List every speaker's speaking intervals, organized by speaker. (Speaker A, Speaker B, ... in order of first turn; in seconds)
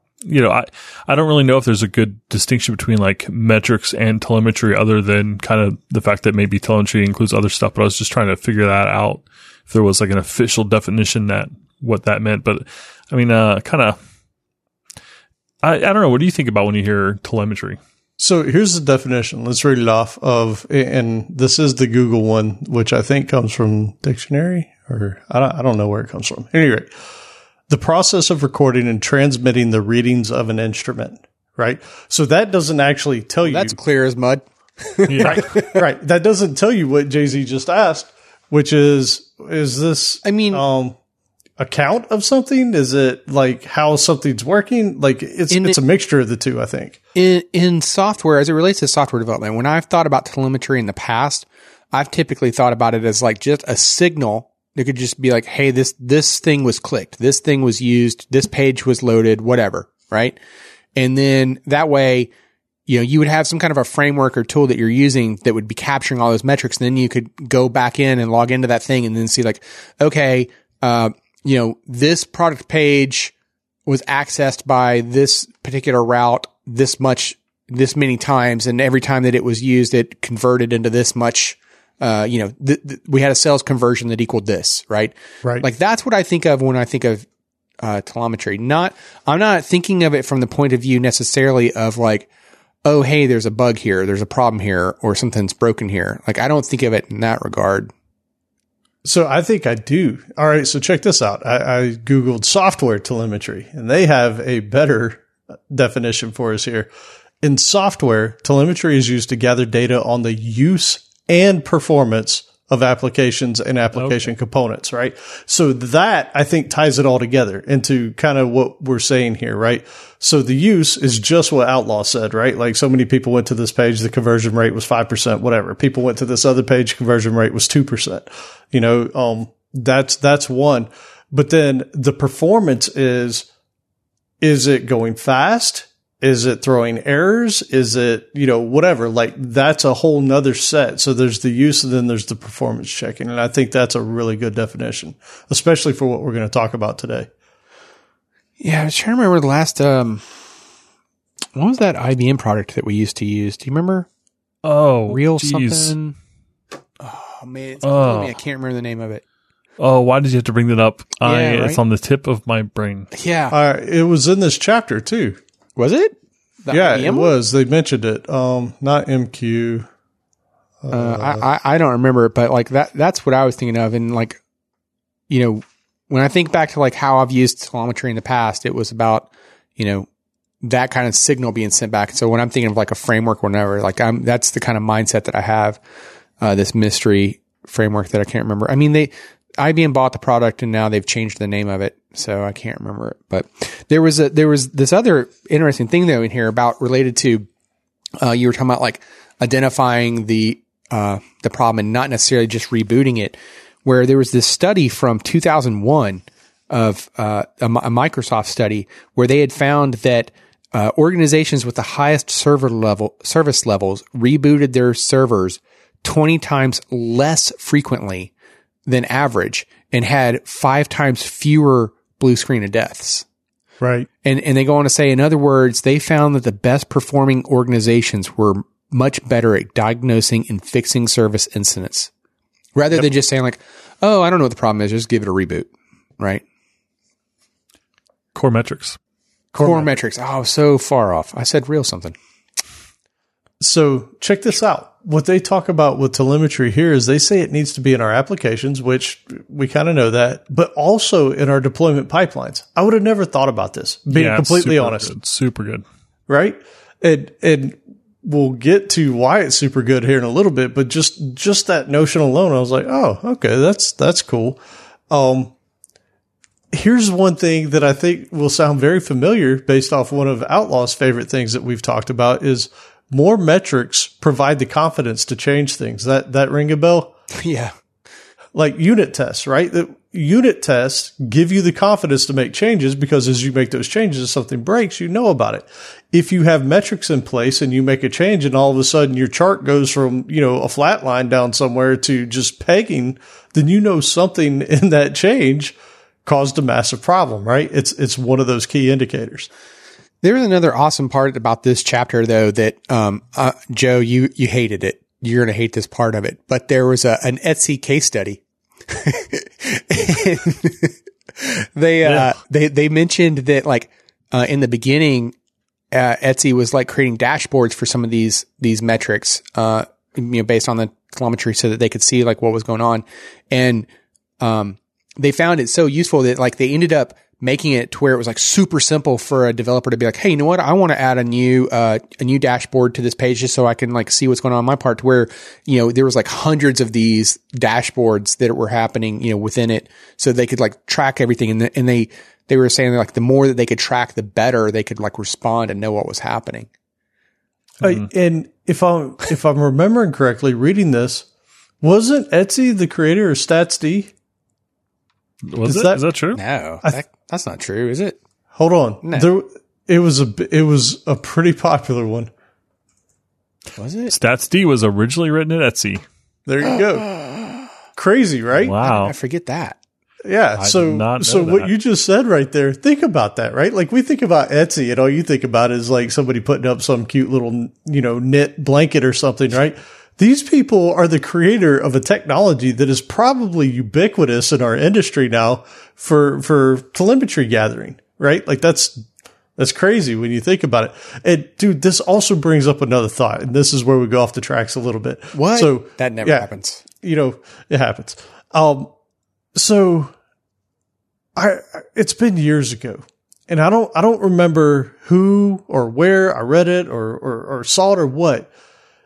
Speaker A: 0.3-14.0, 15.6-17.8, 35.1-35.5, 154.6-155.9, 157.8-158.4, 159.8-163.1, 238.3-239.0, 254.1-255.8, 355.5-356.4, 364.1-366.0, 368.6-369.1, 370.6-371.7
Speaker B: 18.2-26.9, 27.7-33.8, 35.2-41.0, 41.6-47.0, 99.0-106.9, 107.4-133.5, 134.4-147.3, 163.5-165.4, 166.7-169.9, 170.8-171.4, 223.8-224.1, 239.5-240.0, 243.6-255.1, 256.3-264.6, 265.1-265.5, 266.7-277.1, 278.6-299.5, 347.8-351.3, 351.8-354.1, 355.7-356.0, 358.6-362.3, 366.5-367.1, 368.0-368.8, 370.2-389.0, 389.6-398.9, 399.6-400.1, 401.4-408.5
Speaker C: 33.4-35.8, 40.2-40.6, 45.5-45.8, 47.1-60.4, 61.0-62.3, 62.9-73.3, 73.9-87.3, 87.8-92.3, 92.8-97.9, 148.6-150.2, 151.6-154.1, 155.1-156.2, 157.0-159.2, 161.2-161.8, 163.1-163.6, 165.8-167.3, 170.9-174.4, 175.3-180.1, 180.6-185.8, 186.4-197.5, 198.2-218.3, 218.9-223.2, 224.2-232.1, 232.8-236.4, 239.6-242.2, 277.3-277.7, 300.2-315.3, 315.9-323.9, 324.4-346.7, 356.3-358.2, 359.0-359.3, 363.8-364.1, 367.1-367.5, 368.8-369.8, 395.3-396.8